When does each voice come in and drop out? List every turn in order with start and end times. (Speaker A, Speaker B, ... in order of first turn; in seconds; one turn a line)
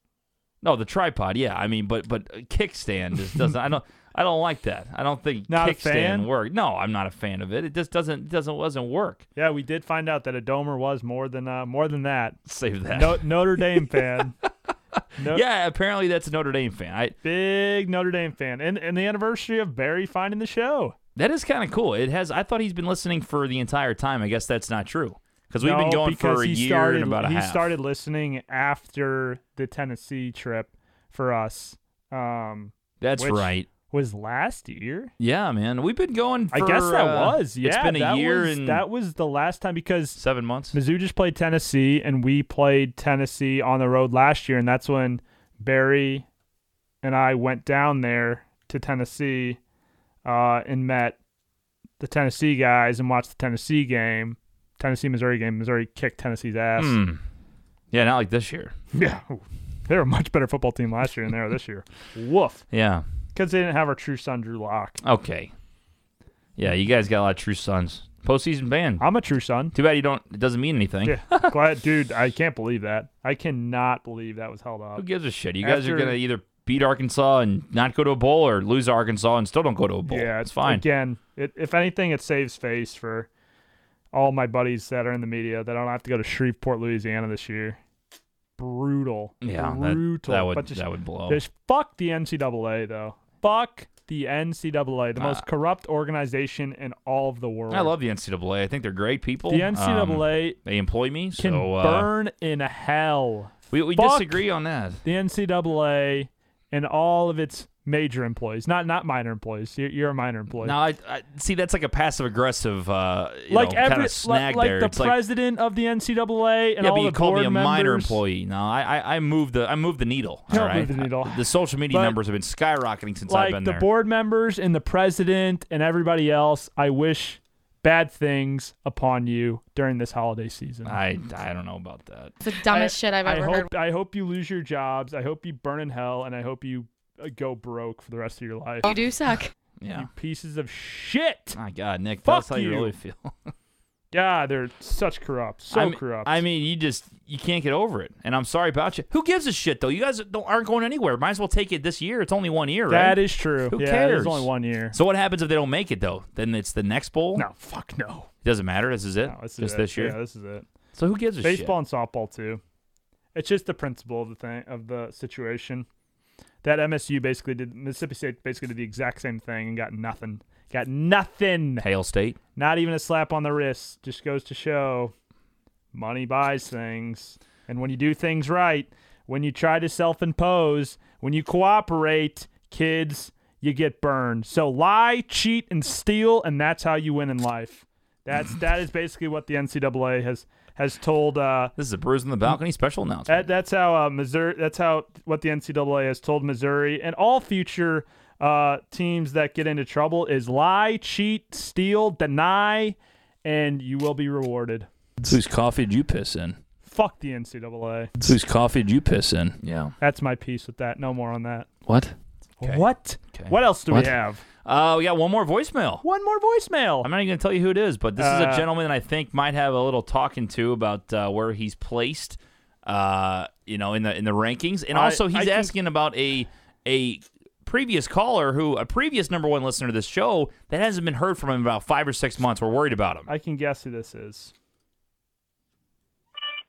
Speaker A: 0.6-9.2
Speaker B: 5.5-6.3
Speaker B: 9.4-12.4
Speaker A: 12.5-17.2
Speaker B: 12.9-14.3
Speaker B: 15.2-15.4
Speaker B: 17.2-20.9
Speaker A: 21.2-27.7
Speaker B: 25.6-35.1
Speaker A: 33.0-33.7
Speaker A: 35.2-38.9
Speaker B: 36.5-40.2
Speaker A: 40.2-40.8
Speaker B: 40.7-46.3
Speaker B: 47.0-49.6
Speaker B: 50.2-51.2
Speaker B: 52.0-57.0
Speaker A: 56.8-57.2
Speaker A: 57.9-58.8
Speaker B: 58.9-62.6
Speaker A: 62.7-63.1
Speaker B: 63.4-65.0
Speaker A: 65.0-65.5
Speaker A: 66.6-69.0
Speaker B: 69.0-69.8
Speaker A: 69.7-71.5
Speaker B: 71.0-75.0
Speaker A: 75.0-80.8
Speaker B: 75.6-76.2
Speaker B: 80.1-83.3
Speaker B: 84.1-87.8
Speaker B: 88.6-97.9
Speaker A: 89.4-91.4
Speaker A: 95.2-95.4
Speaker A: 97.7-102.1
Speaker B: 99.5-100.6
Speaker B: 101.4-104.4
Speaker A: 103.7-105.0
Speaker B: 105.0-110.8
Speaker A: 110.5-115.2
Speaker B: 113.5-118.2
Speaker A: 116.8-123.9
Speaker B: 120.5-122.2
Speaker B: 123.3-131.0
Speaker A: 130.8-132.3
Speaker C: 132.4-133.7
Speaker B: 132.7-138.9
Speaker C: 138.8-139.5
Speaker A: 139.8-140.1
Speaker B: 139.9-141.6
Speaker A: 141.5-143.5
Speaker B: 142.2-142.9
Speaker B: 144.1-146.4
Speaker A: 145.7-157.5
Speaker B: 152.9-155.0
Speaker B: 157.3-158.3
Speaker A: 158.4-160.2
Speaker B: 159.2-160.7
Speaker A: 160.9-161.8
Speaker B: 161.4-162.6
Speaker B: 163.3-165.9
Speaker B: 166.6-171.8
Speaker A: 171.8-172.4
Speaker B: 172.6-175.1
Speaker B: 175.9-191.7
Speaker A: 191.8-193.5
Speaker B: 193.3-205.3
Speaker A: 205.2-206.6
Speaker B: 206.8-208.1
Speaker A: 208.2-210.0
Speaker B: 210.0-211.7
Speaker A: 211.9-216.0
Speaker B: 212.6-214.4
Speaker B: 216.0-217.1
Speaker A: 217.0-233.3
Speaker B: 218.2-218.7
Speaker B: 224.9-225.7
Speaker B: 233.3-234.5